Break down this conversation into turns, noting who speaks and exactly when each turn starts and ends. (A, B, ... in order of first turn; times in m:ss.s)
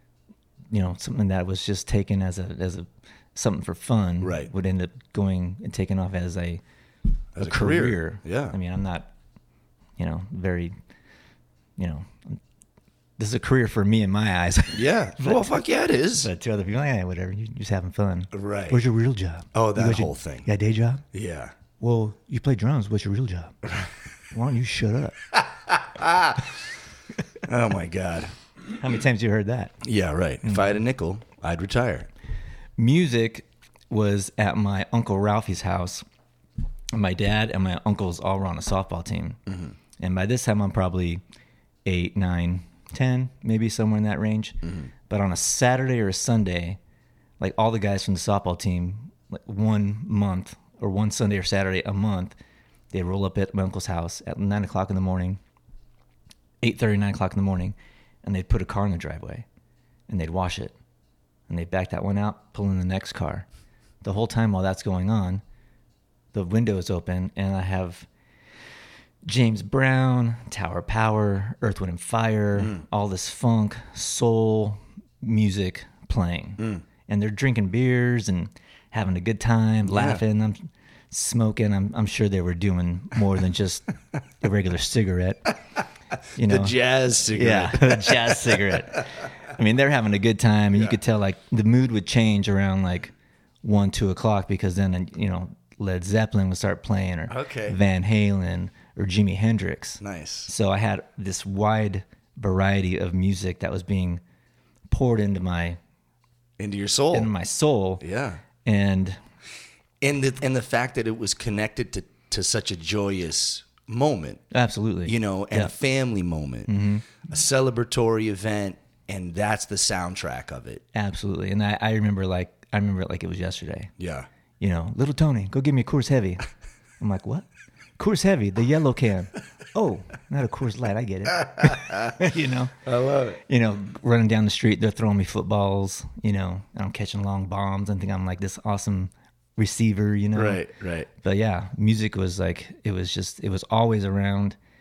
0:00.7-0:06.6 A
0:04.2-0:04.5 B
0:07.4-0:08.6 B
0:07.4-0:09.1 A
0:10.0-0:10.8 A
0:11.8-0:12.4 A
0:13.2-0:15.6 A
0:14.7-0:16.3 B
0:16.1-0:21.0 A
0:18.3-0:18.8 B
0:19.5-0:20.5 B
0:21.1-0:21.5 B
0:21.8-0:23.6 A
0:24.3-0:25.2 A
0:25.7-0:26.5 B
0:27.5-0:28.3 B
0:28.8-0:29.8 A
0:29.8-0:32.1 B
0:32.8-0:36.0 A
0:36.9-0:39.4 A
0:39.5-0:39.8 B
0:40.0-0:41.2 A
0:41.9-0:46.8 A
0:47.4-0:52.4 A
0:52.9-0:55.4 A
0:56.6-0:59.5 A
1:00.1-1:00.8 A
1:01.5-1:03.5 A
1:04.0-1:05.4 A
1:06.3-1:08.1 A
1:09.2-1:23.9 A
1:12.6-1:12.8 B
1:19.8-1:20.2 B
1:24.4-1:25.5 A
1:26.4-1:26.8 A
1:26.4-1:29.2 B
1:27.3-1:33.1 A
1:33.6-1:44.2 A
1:37.3-1:37.8 B
1:40.0-1:40.5 B
1:44.9-1:45.8 A
1:46.6-1:47.3 B
1:47.1-1:48.0 A
1:48.0-1:48.4 B
1:48.6-1:49.2 A
1:50.0-1:54.4 B
1:54.5-1:55.7 A
1:55.0-1:56.7 B
1:56.7-1:57.1 A
1:57.2-2:00.8 B
2:00.9-2:03.9 A
2:04.0-2:04.3 B
2:04.6-2:06.4 A
2:07.0-2:07.5 A
2:08.0-2:12.8 A
2:11.4-2:12.2 B
2:12.8-2:13.4 B
2:13.5-2:20.6 A
2:20.4-2:21.1 B
2:21.2-2:24.6 A